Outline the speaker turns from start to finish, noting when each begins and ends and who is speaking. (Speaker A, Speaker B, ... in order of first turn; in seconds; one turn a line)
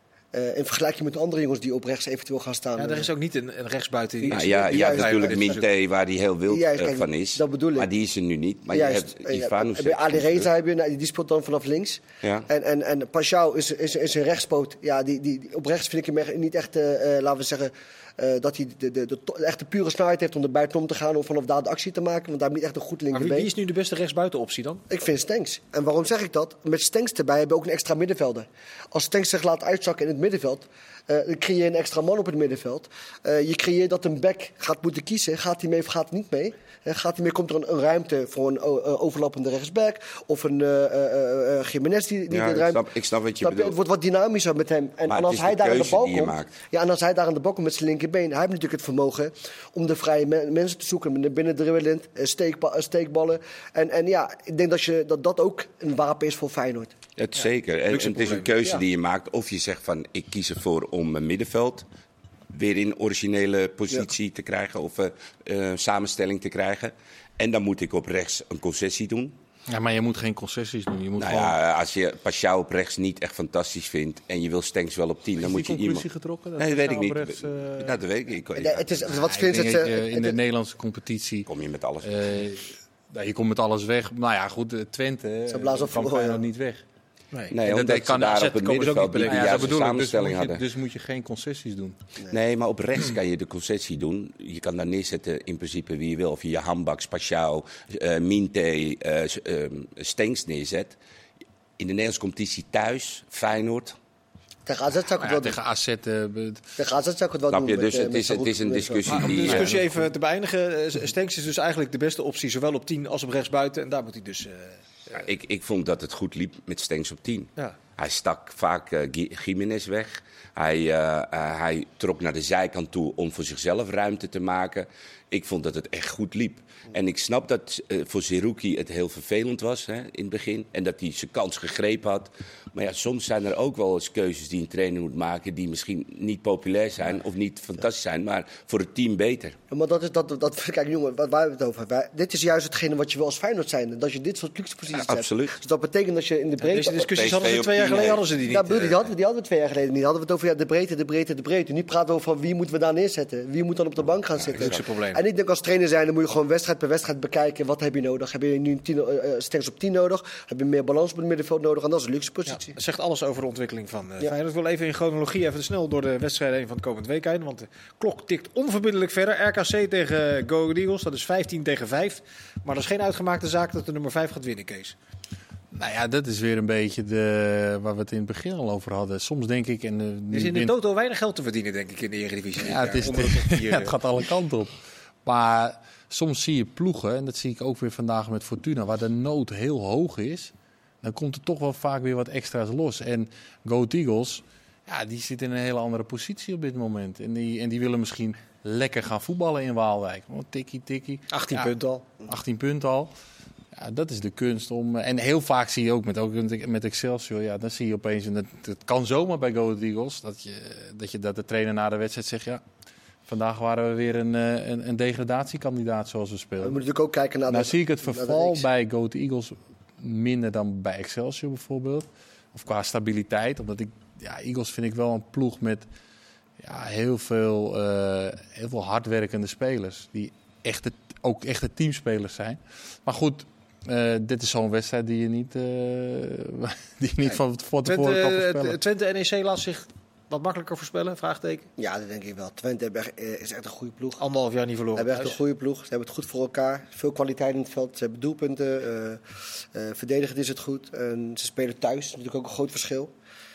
Speaker A: 0.3-3.1
Speaker B: 2.8-5.7
Speaker A: 4.2-5.6
Speaker C: 4.3-10.5
Speaker A: 6.5-7.9
Speaker A: 8.7-23.5
Speaker B: 23.1-24.9
Speaker A: 24.9-42.8
Speaker C: 42.3-43.8
Speaker A: 43.4-56.9
Speaker C: 45.1-46.5
Speaker C: 57.2-61.9
Speaker B: 57.4-58.7
Speaker C: 62.5-69.4
Speaker D: 69.7-71.5
Speaker C: 71.2-76.0
Speaker D: 75.4-78.0
Speaker C: 76.6-79.1
Speaker A: 78.5-80.4
Speaker D: 79.1-81.5
Speaker C: 81.5-82.2
Speaker D: 82.0-86.8
Speaker A: 85.5-86.4
Speaker B: 87.3-89.8
Speaker C: 87.5-90.6
Speaker D: 87.6-88.6
Speaker D: 89.2-92.0
Speaker C: 92.3-101.0
Speaker C: 101.8-104.0
Speaker A: 104.7-105.6
Speaker D: 105.2-106.7
Speaker A: 106.8-109.3
Speaker C: 107.5-109.9
Speaker B: 109.1-115.2
Speaker D: 109.3-109.9
Speaker C: 115.1-139.6
Speaker A: 139.7-147.1
Speaker C: 144.9-145.6
Speaker B: 146.6-148.9
Speaker C: 147.1-148.2
Speaker A: 148.4-162.8
Speaker C: 154.5-154.8
Speaker B: 154.5-155.2
Speaker B: 162.5-174.9
Speaker D: 175.7-180.7
Speaker B: 180.3-184.0
Speaker D: 182.6-201.7
Speaker B: 201.3-202.1
Speaker D: 202.2-203.1
Speaker D: 203.7-212.6
Speaker D: 213.3-216.8
Speaker A: 216.6-218.7
Speaker D: 217.5-225.9
Speaker D: 226.6-238.8
Speaker B: 237.8-241.7
Speaker A: 241.8-244.2
Speaker B: 244.2-245.3
Speaker A: 244.9-253.1